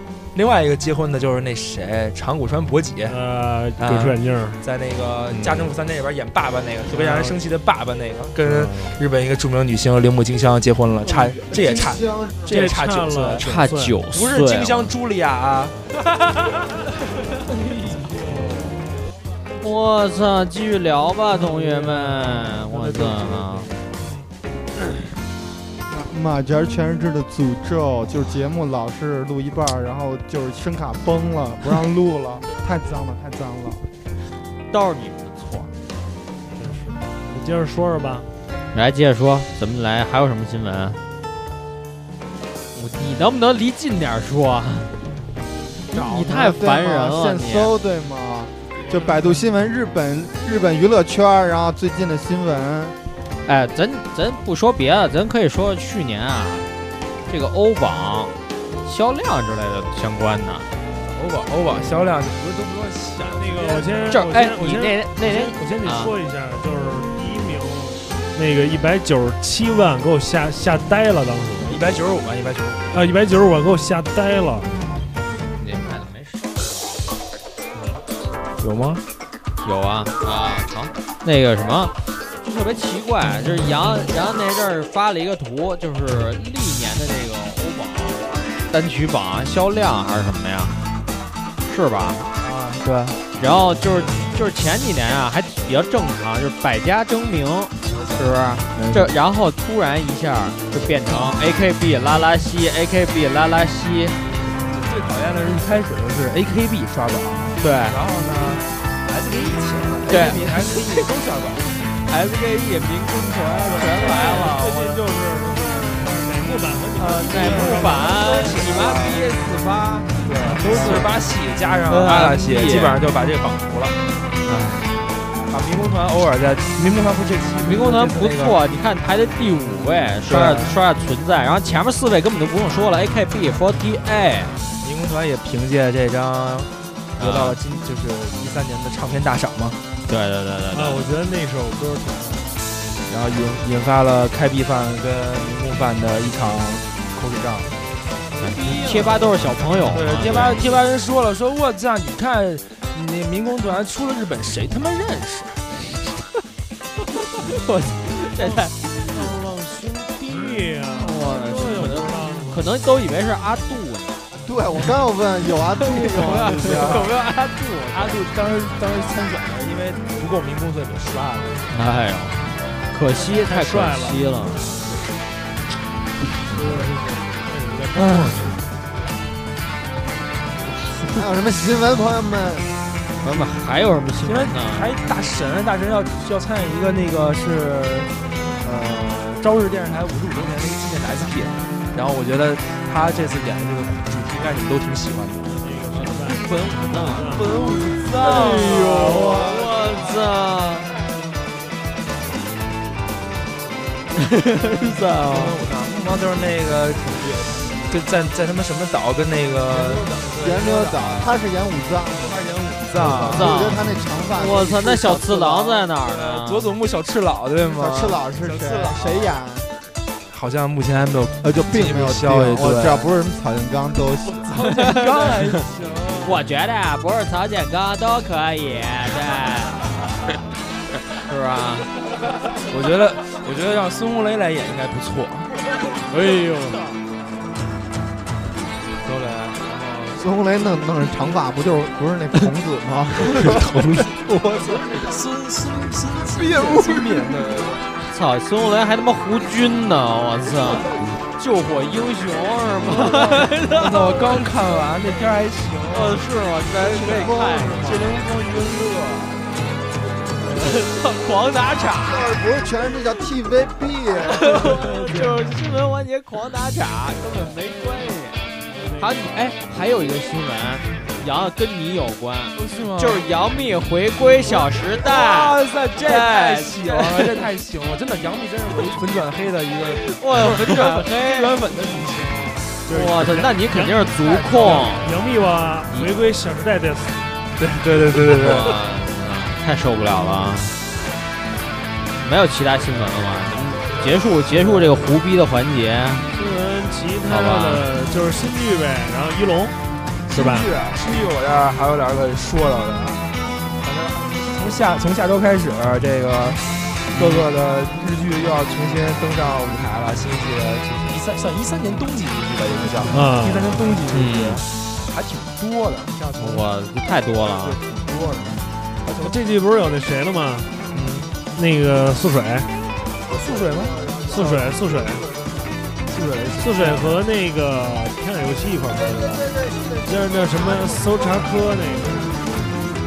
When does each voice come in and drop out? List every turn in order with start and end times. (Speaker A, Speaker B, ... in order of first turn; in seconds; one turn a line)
Speaker A: 0.3-3.2
Speaker B: 3.1-4.6
Speaker A: 3.8-15.8
Speaker B: 6.9-7.4
Speaker B: 8.4-9.0
Speaker C: 11.1-12.6
Speaker B: 12.5-14.0
Speaker D: 13.4-14.9
Speaker D: 19.6-23.7
Speaker B: 21.3-23.8
Speaker C: 25.9-33.8
Speaker D: 34.7-35.8
Speaker B: 36.5-38.3
Speaker D: 38.7-41.0
Speaker D: 42.7-44.9
Speaker C: 45.9-53.0
Speaker D: 45.9-47.7
Speaker D: 53.5-56.7
Speaker D: 57.3-58.3
Speaker D: 58.9-60.7
Speaker A: 61.0-64.3
Speaker B: 63.2-72.0
Speaker D: 64.1-66.1
Speaker A: 71.7-73.0
Speaker B: 72.9-74.7
Speaker D: 75.6-76.7
Speaker A: 78.6-79.0
Speaker D: 79.6-90.8
Speaker D: 91.7-92.3
Speaker A: 92.4-93.2
Speaker D: 93.4-104.2
Speaker A: 97.8-99.1
Speaker A: 104.6-111.9
Speaker D: 107.6-108.0
Speaker D: 110.1-111.0
Speaker D: 112.1-115.0
Speaker B: 113.6-118.5
Speaker A: 114.1-114.4
Speaker D: 117.0-121.1
Speaker A: 117.3-119.2
Speaker A: 120.2-124.0
Speaker B: 120.3-121.2
Speaker D: 121.9-123.0
Speaker D: 124.5-124.9
Speaker A: 125.5-128.6
Speaker D: 127.6-134.5
Speaker A: 130.3-130.8
Speaker A: 134.8-139.8
Speaker D: 137.2-137.6
Speaker D: 140.1-141.1
Speaker B: 140.7-142.5
Speaker A: 143.1-147.7
Speaker B: 148.3-149.8
Speaker D: 148.4-150.7
Speaker A: 149.9-155.7
Speaker D: 157.3-159.3
Speaker B: 158.4-162.7
Speaker D: 161.0-164.2
Speaker C: 164.4-167.1
Speaker D: 165.8-168.2
Speaker A: 166.0-167.1
Speaker A: 167.9-171.7
Speaker D: 171.7-174.8
Speaker B: 173.1-174.8
Speaker B: 176.5-178.7
Speaker A: 178.0-178.3
Speaker C: 181.1-182.7
Speaker D: 183.2-184.9
Speaker A: 184.2-195.6
Speaker B: 195.4-197.6
Speaker D: 195.9-197.3
Speaker A: 197.2-199.3
Speaker D: 198.2-201.0
Speaker B: 198.3-199.6
Speaker D: 204.1-205.6
Speaker A: 205.3-211.3
Speaker C: 210.4-215.9
Speaker A: 212.3-213.8
Speaker D: 213.0-213.8
Speaker D: 214.3-216.7
Speaker A: 216.0-219.3
Speaker C: 217.7-219.7
Speaker A: 220.3-223.1
Speaker C: 221.4-224.7
Speaker A: 224.3-226.5
Speaker D: 224.7-225.3
Speaker D: 226.2-230.0
Speaker D: 231.3-231.9
Speaker A: 232.7-235.5
Speaker D: 236.1-236.8
Speaker A: 239.0-240.2
Speaker C: 240.2-245.2
Speaker A: 243.2-244.1
Speaker A: 244.7-247.8
Speaker C: 246.4-247.1
Speaker D: 248.1-254.5
Speaker A: 252.8-256.3
Speaker D: 255.9-258.0
Speaker C: 256.8-258.1
Speaker A: 256.9-259.4
Speaker D: 260.5-262.4
Speaker C: 262.0-264.7
Speaker D: 264.3-277.4
Speaker A: 264.5-265.5
Speaker B: 268.7-269.4
Speaker A: 272.6-273.2
Speaker A: 274.4-282.6
Speaker D: 279.9-281.6
Speaker B: 282.9-287.3
Speaker D: 282.9-285.1
Speaker A: 284.2-285.2
Speaker D: 285.9-286.1
Speaker A: 287.6-288.7
Speaker D: 288.2-290.8
Speaker D: 292.2-296.3
Speaker A: 293.9-295.0
Speaker B: 296.3-299.8
Speaker D: 297.3-297.9
Speaker A: 300.3-303.2
Speaker B: 300.3-300.7
Speaker A: 303.8-316.7
Speaker D: 307.1-307.5
Speaker B: 313.1-314.0
Speaker D: 314.1-314.6
Speaker D: 316.4-317.8
Speaker A: 317.5-319.4
Speaker B: 319.2-320.8
Speaker A: 320.9-321.3
Speaker B: 321.4-322.7
Speaker A: 323.3-324.6
Speaker B: 324.2-325.3
Speaker A: 326.1-327.2
Speaker B: 326.6-332.4
Speaker C: 329.8-331.4